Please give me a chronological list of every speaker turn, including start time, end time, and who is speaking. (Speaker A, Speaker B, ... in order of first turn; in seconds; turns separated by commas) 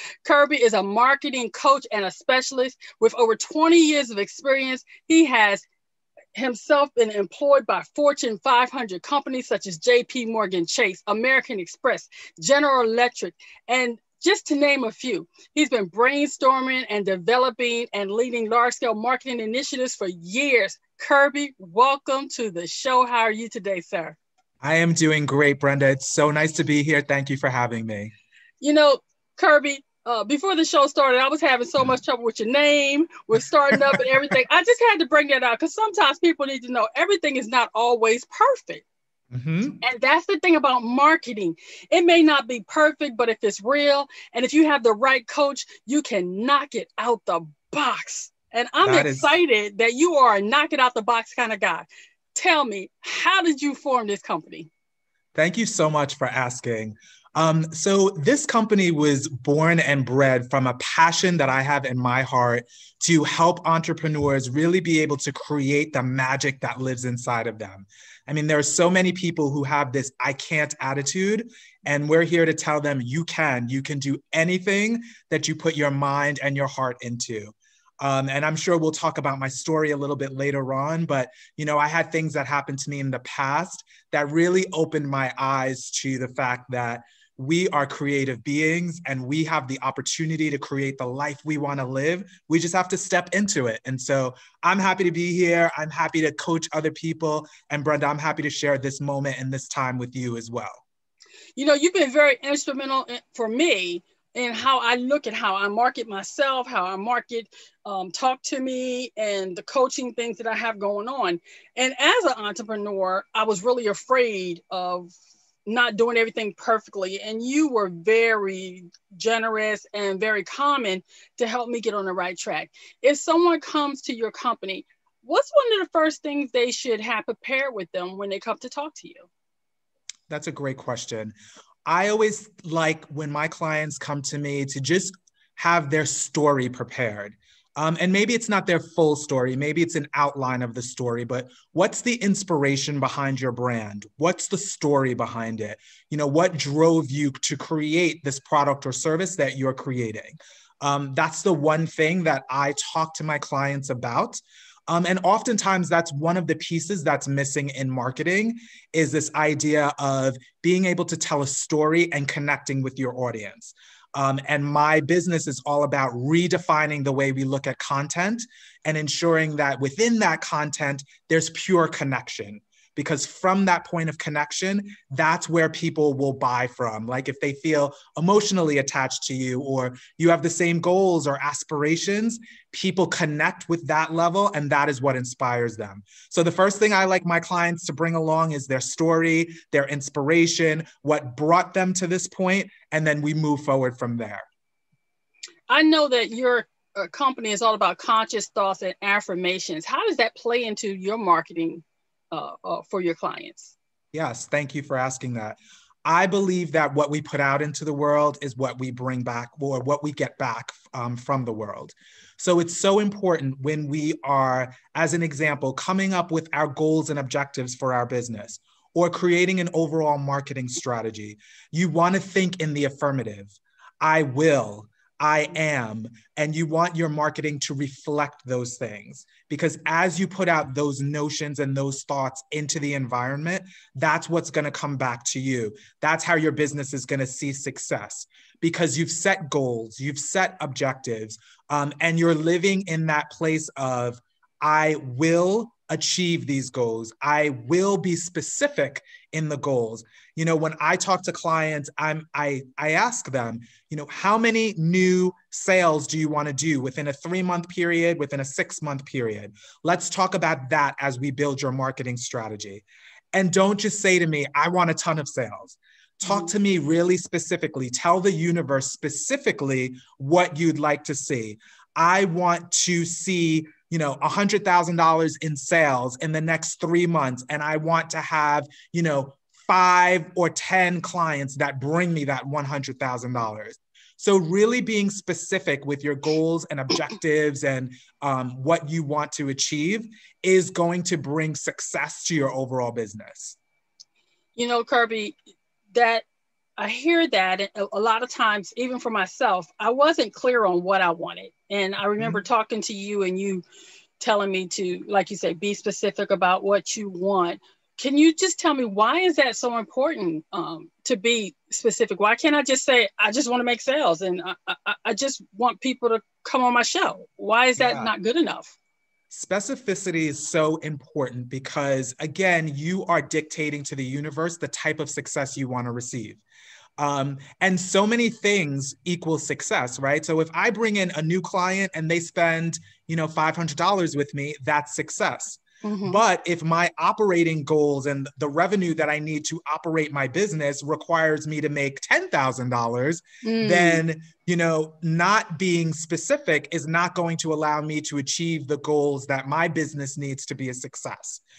Speaker A: 0.2-5.7, Speaker A: 6.3-24.2, Speaker B: 24.6-28.1, Speaker A: 28.6-38.8, Speaker B: 39.3-39.8, Speaker A: 39.8-54.7, Speaker B: 48.8-49.4, Speaker B: 55.3-100.8, Speaker A: 101.5-115.1, Speaker A: 115.7-129.3, Speaker B: 130.3-194.5, Speaker A: 195.7-203.7, Speaker B: 204.1-293.6, Speaker A: 266.2-266.5, Speaker A: 294.6-295.4, Speaker A: 295.9-296.2, Speaker A: 296.8-303.6, Speaker A: 304.2-318.8, Speaker B: 317.8-318.1, Speaker B: 319.3-326.4, Speaker B: 327.0-351.4, Speaker A: 335.8-336.2, Speaker A: 343.4-344.0